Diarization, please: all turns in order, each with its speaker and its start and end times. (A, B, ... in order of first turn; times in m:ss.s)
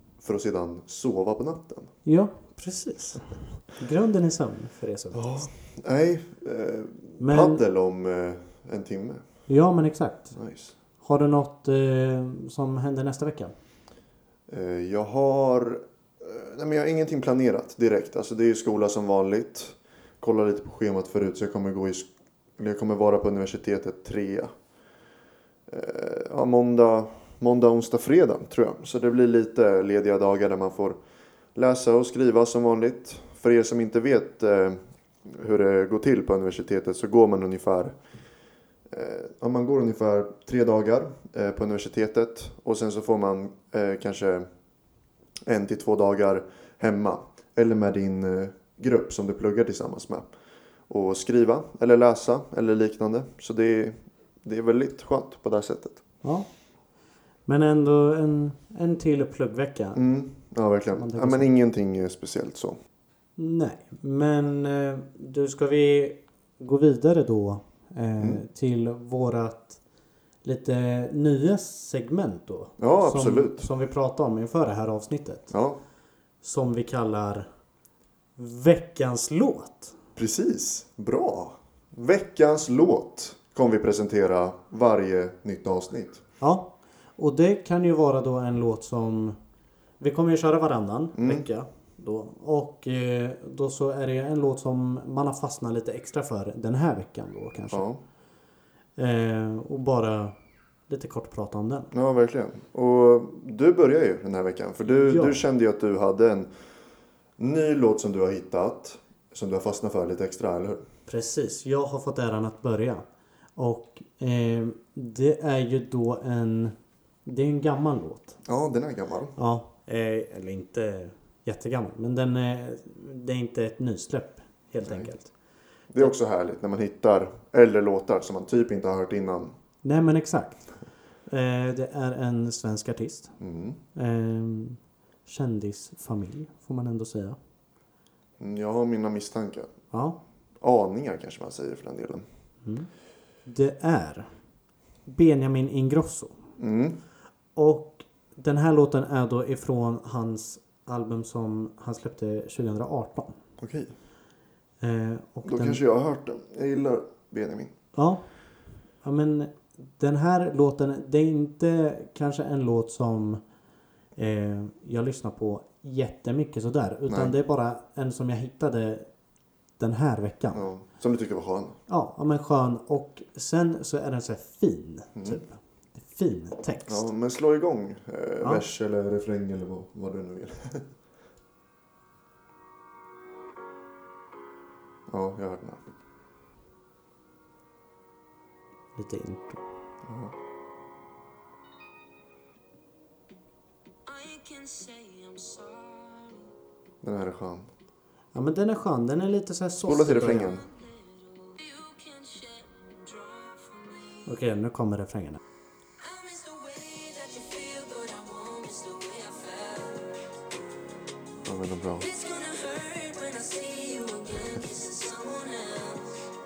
0:00.2-0:01.9 A
0:02.0-0:05.5 B
0:05.1-0:09.2 A
0:07.2-0:07.6 B
0:09.5-0:10.4 B
0:10.4-0:10.8 A
0:11.0-0:13.5 B
0:14.5-0:24.5 A
0:25.7-0:31.0 A
0:31.6-0:38.0 A
0:38.9-0:44.5 A
0:45.5-0:50.3 A
0:50.9-0:56.0 A
0:57.5-1:00.0 B
1:00.0-1:02.8 A
1:00.9-1:01.5 B
1:03.4-1:09.8 B
1:10.4-1:15.5 B
1:12.8-1:13.7 A
1:15.5-1:15.8 A
1:16.4-1:17.5 B
1:18.4-1:20.0 B
1:20.2-1:26.2 A
1:26.4-1:29.4 B
1:30.0-1:37.9 B
1:31.2-1:31.4 A
1:37.7-1:38.0 A
1:39.0-1:40.4 B
1:40.9-1:41.9 B
1:41.9-1:46.5 A
1:44.9-1:45.4 B
1:47.4-1:50.8 A
1:51.1-1:53.0 B
1:53.6-1:58.4 B
1:58.4-1:59.4 A
1:59.4-2:05.3 B
2:04.8-2:05.1 A
2:05.9-2:09.5 A
2:09.8-2:10.7 B
2:11.3-2:13.4 B
2:13.4-2:13.8 A
2:14.0-2:17.4 B
2:18.4-2:19.7 A
2:19.9-2:20.2 B
2:20.6-2:22.3 A
2:22.6-2:22.9 B
2:23.5-2:24.3 B
2:25.1-2:26.4 B
2:26.6-2:27.0 A
2:27.6-2:33.4 B
2:33.6-2:33.9 A
2:34.8-2:35.8 B
2:35.4-2:37.7 A
2:38.0-2:38.2 B
2:39.0-2:43.4 B
2:44.2-2:49.1 B
2:47.1-2:47.3 A
2:49.8-2:50.6 B
2:50.5-2:51.8 A
2:51.9-2:57.1 B
2:55.2-2:55.4 A
2:56.9-3:00.9 A
3:05.1-3:05.8 A
3:09.0-3:09.6 B
3:10.1-3:10.3 A
3:14.0-3:16.5 C
3:17.0-3:17.7 A
3:18.3-3:20.6 B
3:19.9-3:20.6 A
3:20.5-3:24.4 C
3:24.3-3:25.4 B
3:26.0-3:30.2 C
3:31.4-3:32.0 A
3:32.0-3:36.2 C